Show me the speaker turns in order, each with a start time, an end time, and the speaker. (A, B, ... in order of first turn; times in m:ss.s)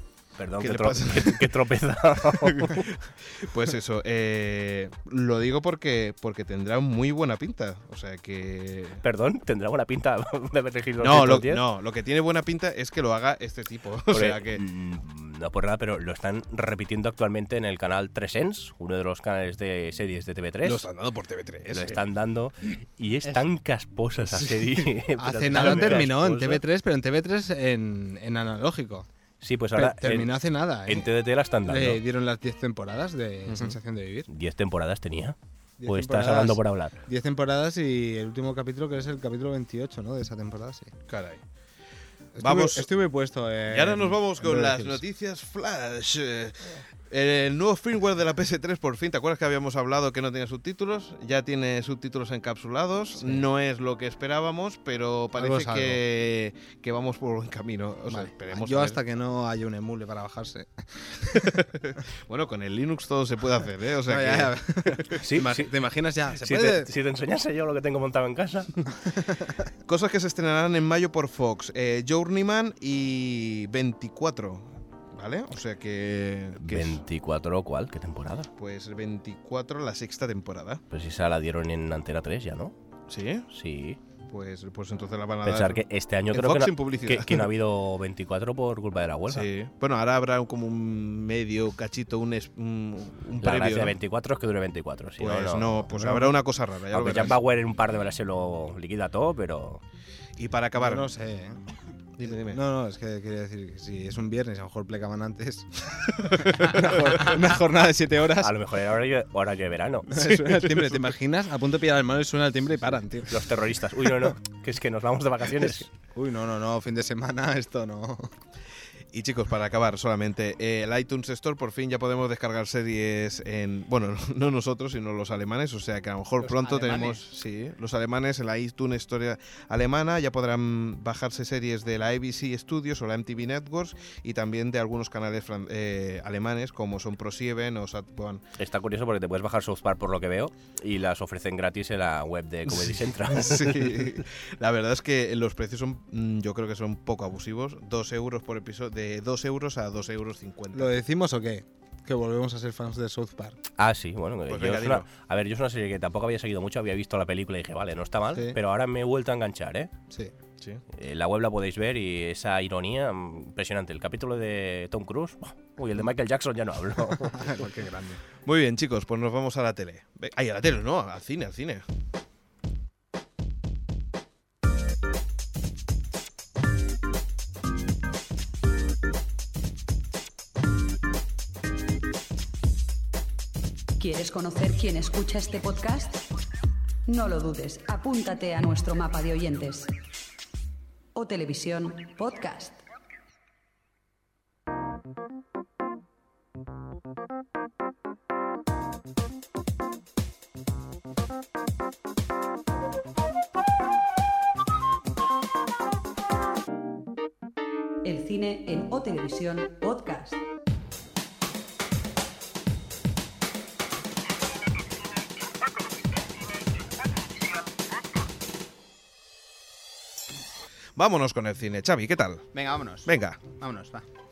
0:00.4-0:02.9 A
0:00.6-0:01.6 B
0:02.4-0:09.0 B
0:09.0-0:11.6 A
0:11.0-0:14.6 B
0:14.1-0:20.9 A
0:20.6-0:22.0 B
0:21.7-0:26.6 A
0:25.2-0:29.1 C
0:25.6-0:26.0 B
0:29.4-0:32.0 A
0:29.8-0:31.1 C
0:31.7-0:34.3 C
0:33.5-0:33.8 B
0:34.3-0:37.0 A
0:35.8-0:40.9 C
0:41.1-0:41.4 B
0:42.4-0:45.0 C
0:42.4-0:42.9 B
0:43.7-0:59.0 B
0:53.2-0:53.4 C
0:55.4-0:56.0 C
0:58.1-1:01.6 C
1:01.3-1:05.2 B
1:04.1-1:06.9 C
1:05.2-1:05.7 A
1:06.3-1:08.8 A
1:09.1-1:09.6 C
1:09.9-1:17.0 B
1:16.6-1:18.5 A
1:18.6-1:20.8 B
1:20.9-1:22.8 A
1:23.1-1:23.5 B
1:23.5-1:24.0 A
1:24.3-1:27.5 B
1:25.4-1:29.5 A
1:29.3-1:34.0 B
1:33.4-1:36.2 A
1:35.2-1:37.4 B
1:36.9-1:39.8 A
1:40.4-1:41.1 B
1:40.8-1:41.6 C
1:42.2-1:42.6 B
1:42.3-1:48.5 C
1:46.3-1:47.2 B
1:48.4-1:50.1 A
1:50.1-1:53.4 C
1:50.2-1:51.0 B
1:53.3-1:55.9 A
1:55.6-1:58.3 C
1:59.1-2:18.4 B
2:06.4-2:07.2 D
2:18.6-2:24.2 A
2:22.7-2:30.9 B
2:30.7-2:33.6 C
2:33.8-2:39.9 A
2:34.5-2:35.1 B
2:40.9-2:47.7 A
2:47.3-2:48.2 C
2:48.4-2:51.8 B
3:04.0-3:06.2 E
3:07.1-3:09.9 E
3:11.2-3:12.8 E
3:28.0-3:30.4 E
3:41.0-3:42.5 B
3:42.5-3:44.1 D
3:43.1-3:43.4 B